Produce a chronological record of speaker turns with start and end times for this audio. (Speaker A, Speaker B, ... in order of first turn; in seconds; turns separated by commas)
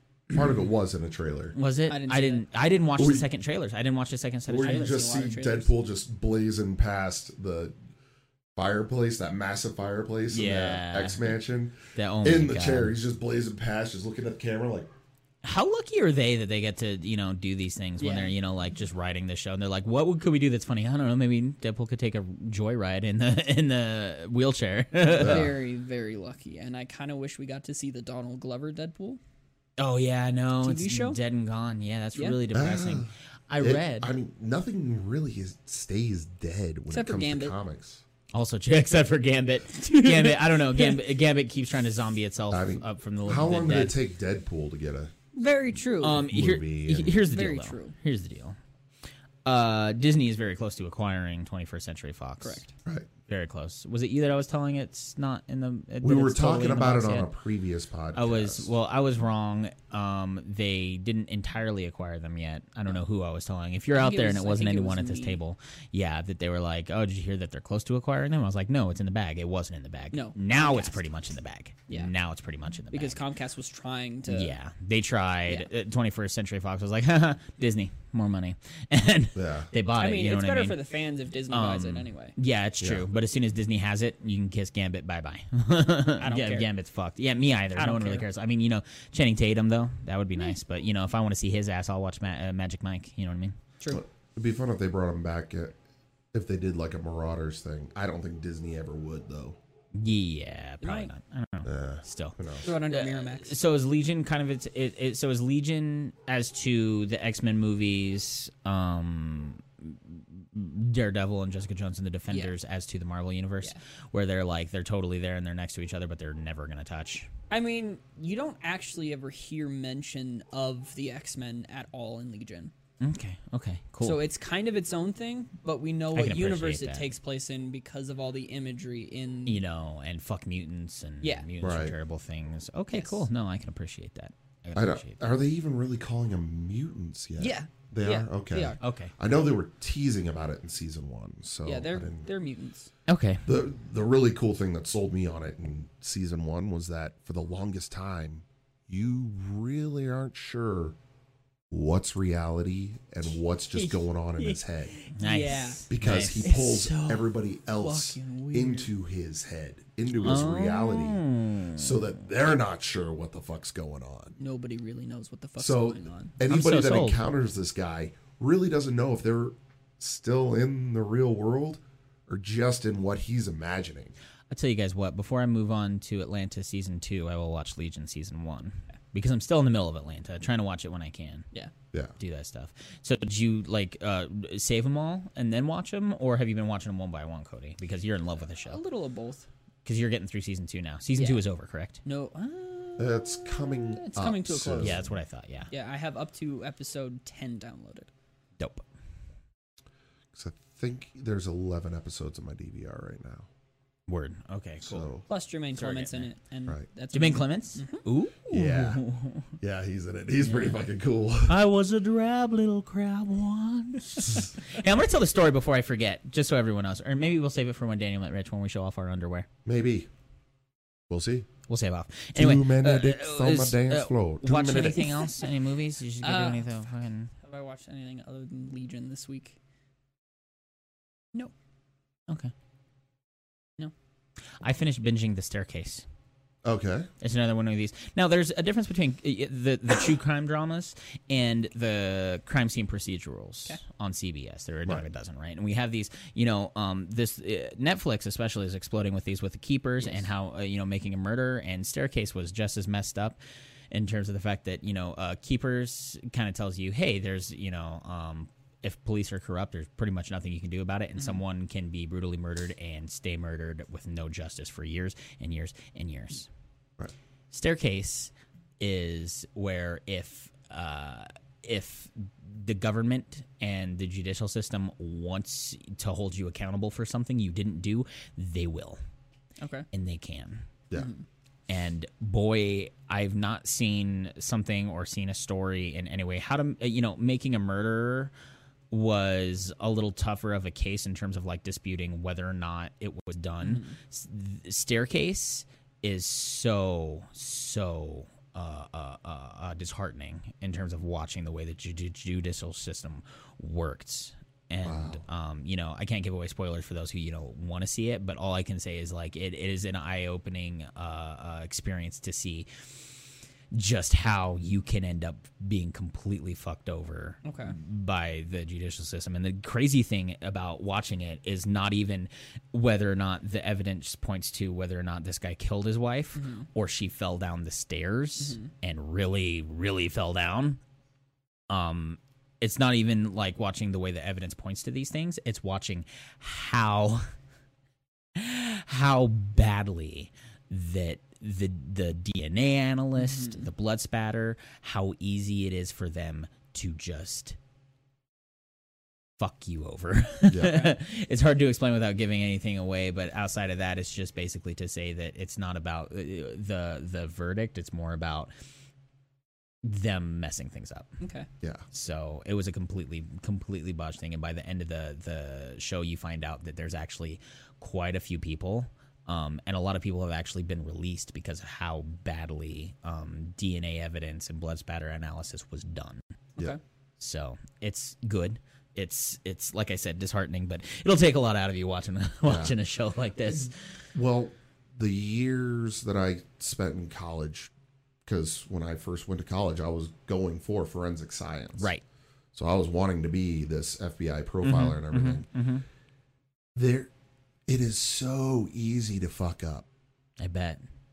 Speaker A: 0.3-1.6, Speaker B: 1.5-5.0, Speaker C: 1.9-2.5, Speaker A: 3.0-3.3, Speaker A: 4.5-7.7, Speaker C: 4.6-5.7, Speaker A: 8.6-14.9, Speaker B: 10.3-11.3, Speaker B: 11.9-12.9, Speaker B: 15.4-25.5, Speaker C: 18.0-18.3, Speaker C: 25.1-29.2, Speaker A: 25.2-25.5, Speaker B: 29.8-34.1, Speaker C: 30.6-31.2, Speaker A: 32.5-38.0, Speaker C: 36.9-37.5, Speaker B: 38.3-44.0, Speaker C: 39.8-40.9, Speaker A: 42.5-45.1, Speaker C: 45.3-46.3, Speaker B: 46.0-48.6, Speaker A: 46.2-47.2, Speaker C: 47.3-47.9, Speaker B: 49.4-52.6, Speaker C: 52.4-52.7, Speaker B: 53.3-57.3, Speaker A: 56.0-58.7, Speaker B: 58.1-73.2, Speaker C: 63.9-65.4, Speaker C: 70.1-71.0, Speaker C: 72.9-74.5, Speaker B: 74.3-80.8, Speaker A: 79.3-79.7, Speaker C: 79.9-82.3, Speaker B: 81.5-93.6, Speaker C: 86.2-86.7, Speaker C: 87.7-88.2, Speaker A: 93.9-95.8, Speaker A: 96.3-99.6, Speaker B: 99.9-117.3, Speaker C: 100.8-101.1, Speaker A: 101.6-102.7, Speaker C: 102.6-103.6, Speaker C: 117.5-122.7, Speaker B: 123.0-124.2, Speaker C: 124.0-129.6, Speaker B: 126.1-127.1, Speaker B: 129.4-135.2, Speaker A: 131.6-131.9, Speaker C: 132.9-133.2, Speaker A: 134.7-142.3, Speaker C: 137.4-138.8, Speaker B: 138.8-139.1, Speaker C: 141.6-142.9, Speaker B: 143.1-143.4, Speaker A: 143.4-150.9, Speaker A: 151.7-154.9, Speaker C: 153.7-155.9, Speaker B: 155.1-156.7, Speaker A: 155.9-161.2, Speaker C: 156.4-158.9, Speaker B: 160.2-162.1, Speaker A: 161.7-164.3, Speaker C: 164.4-166.3, Speaker A: 165.6-174.1, Speaker B: 166.5-167.2, Speaker B: 174.5-181.5, Speaker B: 182.2-188.8, Speaker C: 188.6-189.5, Speaker B: 189.8-192.0, Speaker C: 191.2-191.4, Speaker C: 192.0-195.0, Speaker A: 193.0-195.1, Speaker B: 194.8-195.7, Speaker C: 195.7-198.1, Speaker B: 198.6-198.8, Speaker A: 200.3-203.5, Speaker B: 204.1-205.1, Speaker A: 204.8-205.2, Speaker C: 205.3-208.0, Speaker B: 205.7-206.3, Speaker B: 207.1-209.5, Speaker A: 208.5-209.0, Speaker A: 209.6-211.6, Speaker B: 211.4-219.5, Speaker A: 219.6-220.1, Speaker A: 221.1-221.5, Speaker B: 221.7-227.3, Speaker A: 222.3-225.1, Speaker C: 225.0-225.3, Speaker C: 226.2-226.8, Speaker C: 227.4-229.6, Speaker B: 234.6-236.1, Speaker A: 236.6-237.1, Speaker B: 237.2-253.4, Speaker B: 253.9-266.5, Speaker B: 267.5-279.0, Speaker C: 279.6-279.9, Speaker B: 279.9-280.7, Speaker C: 280.9-281.2, Speaker B: 281.7-288.3, Speaker B: 288.9-312.7, Speaker C: 293.6-294.0, Speaker A: 304.8-305.2, Speaker B: 313.7-330.8, Speaker C: 317.4-317.8, Speaker C: 326.3-326.7, Speaker C: 328.4-328.7, Speaker B: 331.7-337.3, Speaker B: 338.3-347.6, Speaker C: 343.2-343.6, Speaker B: 349.4-358.5, Speaker A: 350.5-350.9, Speaker B: 359.8-361.1, Speaker C: 361.2-361.5, Speaker B: 361.9-376.2, Speaker B: 377.2-383.7, Speaker A: 382.4-382.7, Speaker A: 383.5-387.7, Speaker A: 388.2-391.9, Speaker B: 391.8-392.0, Speaker A: 392.5-395.5, Speaker B: 394.6-395.8, Speaker A: 396.7-397.1, Speaker A: 397.7-399.9, Speaker B: 400.4-400.8